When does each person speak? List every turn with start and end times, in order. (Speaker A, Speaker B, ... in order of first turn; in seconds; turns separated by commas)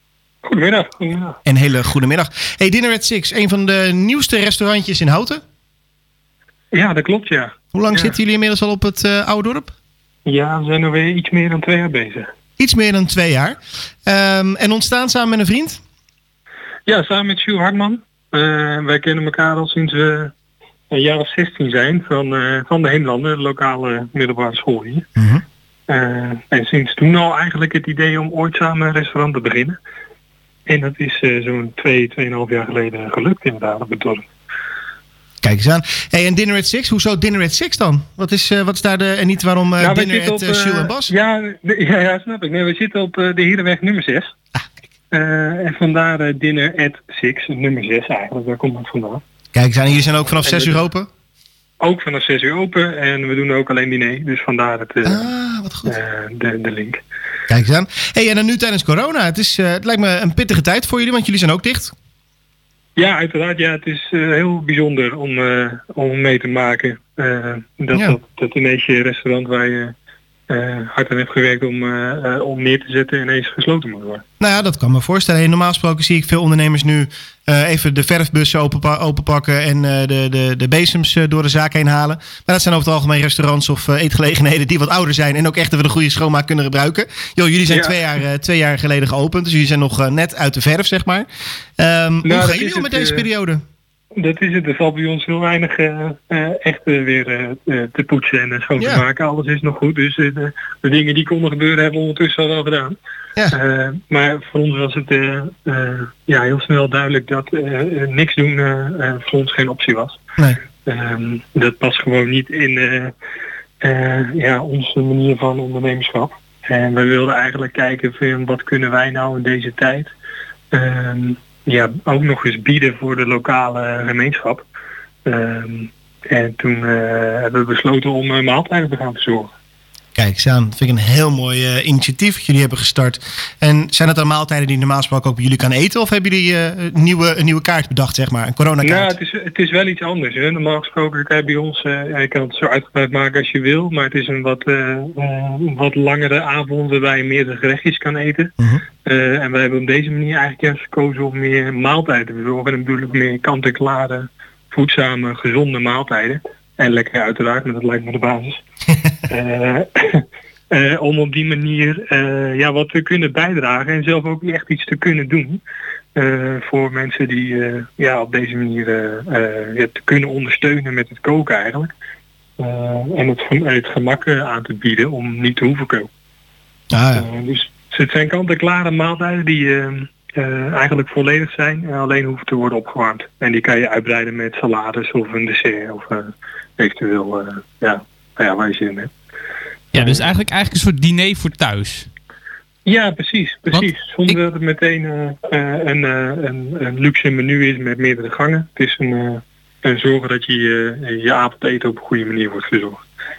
Speaker A: 0.4-1.4, Speaker B: 1.5-5.4, Speaker A: 6.7-8.1, Speaker B: 7.7-9.7, Speaker A: 10.3-12.3, Speaker B: 12.6-15.8, Speaker A: 16.9-20.3, Speaker A: 20.9-25.1, Speaker B: 25.2-25.4, Speaker A: 25.9-29.8, Speaker A: 30.7-34.2, Speaker B: 35.4-41.1, Speaker A: 39.8-44.3, Speaker A: 45.1-49.2, Speaker B: 49.5-51.1, Speaker A: 50.4-50.9, Speaker A: 51.8-55.3, Speaker B: 55.0-55.9, Speaker A: 55.9-57.0, Speaker B: 57.5-62.0, Speaker A: 63.0-69.9, Speaker A: 70.5-74.2, Speaker B: 74.4-91.3, Speaker A: 87.7-88.0, Speaker B: 91.8-93.6, Speaker A: 92.2-93.3, Speaker A: 94.2-103.0, Speaker B: 98.8-99.0, Speaker A: 103.5-110.2, Speaker A: 110.9-113.1, Speaker A: 113.8-120.1, Speaker A: 120.7-124.6, Speaker A: 125.3-129.5, Speaker B: 130.2-139.1, Speaker A: 138.8-148.5, Speaker A: 149.0-158.6, Speaker A: 159.3-165.6, Speaker A: 166.2-171.9, Speaker A: 172.6-176.1, Speaker B: 176.9-177.2, Speaker A: 177.2-189.1, Speaker C: 189.9-192.1, Speaker A: 192.9-203.0, Speaker C: 193.7-194.4